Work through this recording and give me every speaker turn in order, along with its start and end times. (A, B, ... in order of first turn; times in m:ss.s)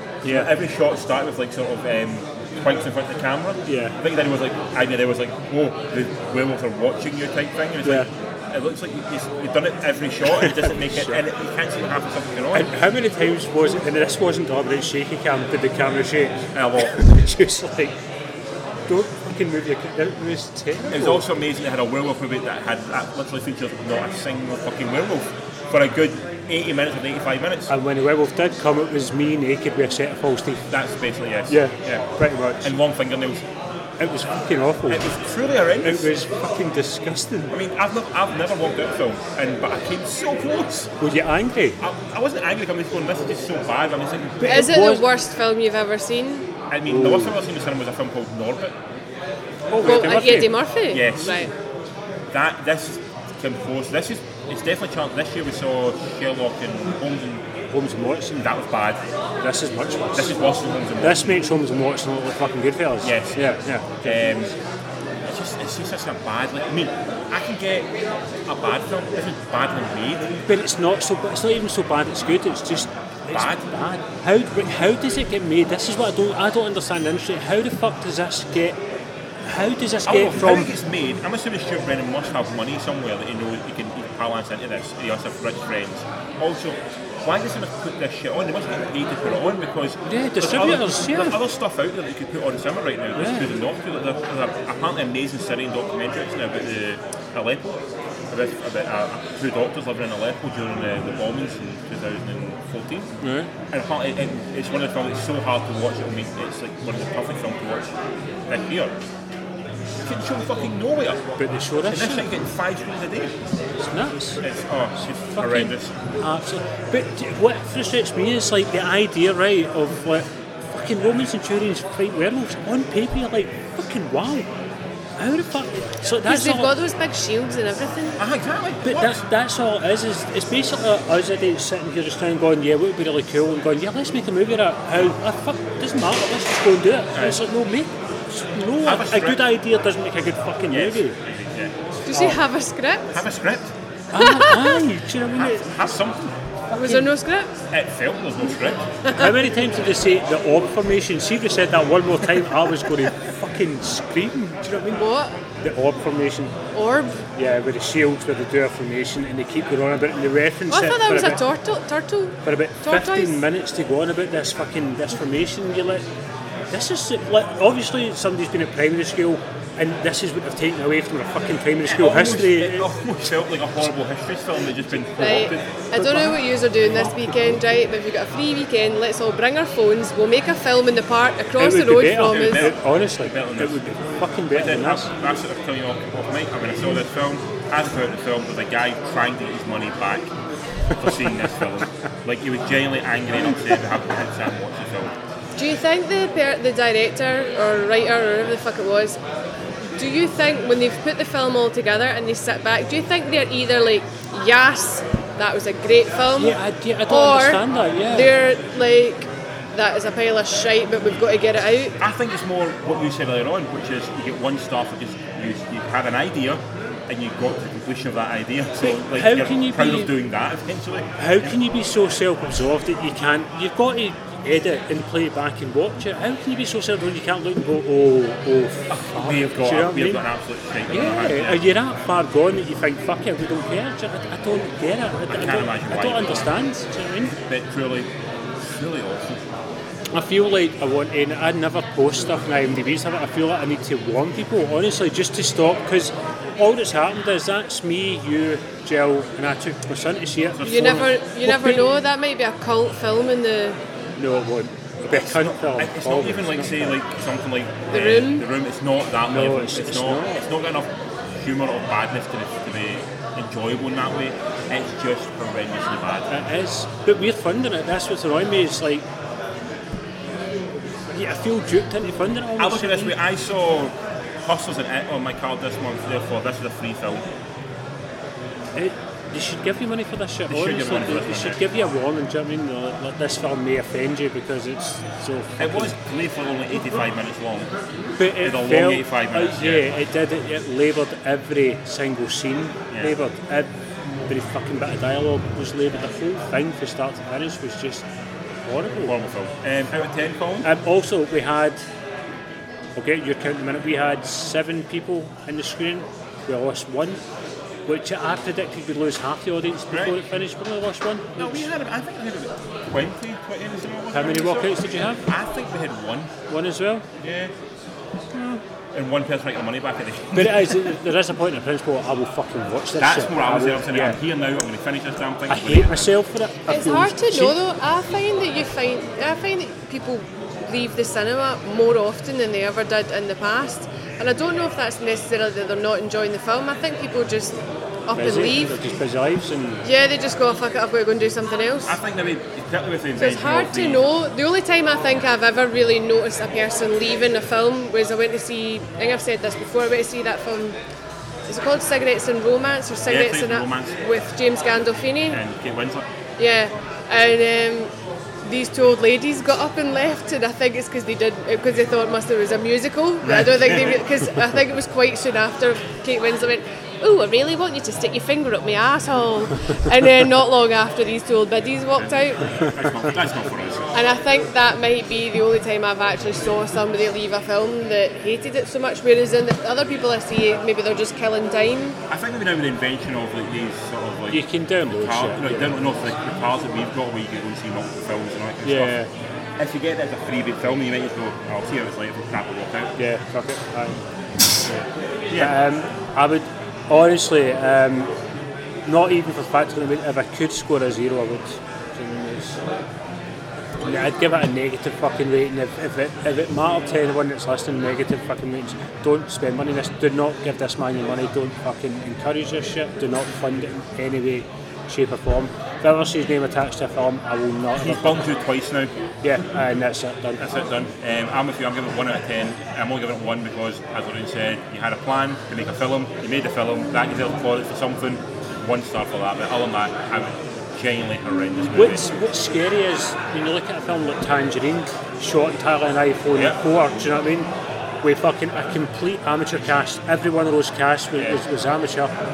0:00.2-0:00.5 A
0:00.2-0:12.7 B
0:03.7-0:04.0 A
0:07.8-0:08.1 A
0:10.4-0:11.2 A
0:12.5-0:18.0 A
0:16.5-0:17.0 B
0:18.9-0:21.2 A
0:20.9-0:27.7 B
0:27.7-0:30.6 A
0:30.7-0:32.1 B
0:31.5-0:32.7 A
0:32.6-0:33.4 B
0:34.0-0:35.0 A
0:34.9-0:36.1 B
0:35.8-0:37.5 A
0:37.5-0:40.9 B
0:41.0-0:41.8 A
0:41.8-0:44.7 B
0:44.4-0:45.0 A
0:44.5-0:46.5 C
0:46.7-0:48.8 B
0:46.9-0:47.3 A
0:49.7-0:50.5 A
0:49.8-0:51.5 C
0:50.9-0:51.5 B
0:52.3-0:57.4 B
0:57.7-0:58.4 A
0:58.4-0:59.0 B
0:59.4-1:00.3 A
1:00.1-1:01.4 B
1:01.0-1:04.2 A
1:03.0-1:04.5 B
1:05.2-1:07.9 B
1:08.4-1:10.3 B
1:10.5-1:18.8 A
1:13.3-1:13.6 B
1:19.4-1:20.7 A
1:20.0-1:43.1 B
1:30.1-1:31.4 A
1:33.2-1:33.5 A
1:43.2-1:43.5 A
1:43.7-1:47.9 B
1:48.5-1:48.9 B
1:50.0-1:51.2 B
1:51.4-1:52.3 A
1:51.8-1:53.4 B
1:53.8-1:54.4 A
1:54.4-1:55.9 B
1:55.3-2:04.5 A
2:05.2-2:06.7 A
2:06.2-2:08.2 C
2:08.2-2:09.2 B
2:08.8-2:21.2 A
2:17.1-2:17.4 B
2:18.8-2:19.5 B
2:20.7-2:21.7 B
2:22.1-2:23.2 C
2:22.1-2:22.4 A
2:23.1-2:23.7 B
2:24.1-2:25.7 A
2:24.2-2:24.8 C
2:25.3-2:26.3 B
2:26.7-2:27.1 A
2:26.7-2:27.5 C
2:27.7-2:28.8 B
2:29.0-2:29.3 C
2:29.1-2:35.1 A
2:34.9-2:35.3 C
2:35.6-2:36.5 A
2:36.7-2:37.2 C
2:37.3-2:41.4 A
2:40.7-2:43.4 C
2:42.4-2:46.0 A
2:46.7-2:53.1 A
2:51.8-2:55.6 B
2:54.9-2:56.4 A
2:55.2-3:02.7 C
3:01.6-3:05.1 A
3:02.2-3:03.9 B
3:04.5-3:10.3 B
3:11.0-3:15.1 B
3:11.1-3:11.5 A
3:15.6-3:19.2 C
3:20.0-3:32.0 C
3:26.3-3:28.3 A
3:32.0-3:41.6 B
3:38.8-3:40.1 A
3:41.2-3:50.2 A
3:48.9-3:51.6 B
3:50.9-3:57.3 A
3:55.3-3:56.5 B
3:57.4-3:58.1 B
3:58.6-3:59.4 B
4:00.1-4:11.8 A
4:10.5-4:11.2 B
4:10.6-4:13.8 C
4:14.2-4:17.0 A
4:15.1-4:26.3 B
4:17.9-4:18.5 C
4:19.3-4:20.4 A
4:26.3-4:29.0 A
4:31.1-4:33.2 A
4:32.6-4:37.3 B
4:38.7-4:45.9 A
4:40.5-4:41.6 B
4:45.6-4:47.7 B
4:48.2-4:53.7 A
4:48.4-4:49.9 B
4:54.3-4:58.1 A
4:58.6-4:59.2 A
4:59.0-5:00.7 B
5:00.6-5:01.8 A
5:03.0-5:07.2 A
5:07.9-5:11.7 A
5:09.9-5:10.2 B
5:11.4-5:16.3 B
5:14.1-5:15.2 A
5:16.5-5:17.0 A
5:17.2-5:17.5 B
5:18.3-5:18.6 A
5:18.9-5:21.0 B
5:20.3-5:24.2 A
5:23.0-5:26.1 B
5:25.5-5:27.6 A
5:26.7-5:38.7 C
5:38.1-5:39.8 A
5:39.8-5:42.0 C
5:41.8-5:44.0 B
5:43.2-5:50.8 C
5:51.5-5:55.4 C
5:53.1-5:54.0 B
5:55.3-5:56.0 B
5:56.4-5:57.9 C
5:58.4-6:12.6 C
6:03.2-6:04.0 B
6:12.0-6:13.9 B
6:13.9-6:22.0 C
6:22.1-6:29.0 B
6:24.3-6:25.7 A
6:28.6-6:29.1 A
6:29.6-6:32.9 B
6:33.0-6:34.0 A
6:34.6-6:38.1 A
6:35.3-6:35.5 B
6:38.8-6:42.6 A
6:43.8-6:58.2 A
6:57.8-6:58.9 B
6:59.2-7:00.4 A
7:00.4-7:12.1 B
7:11.7-7:17.5 A
7:16.3-7:16.6 B
7:18.0-7:22.1 A
7:21.2-7:21.4 B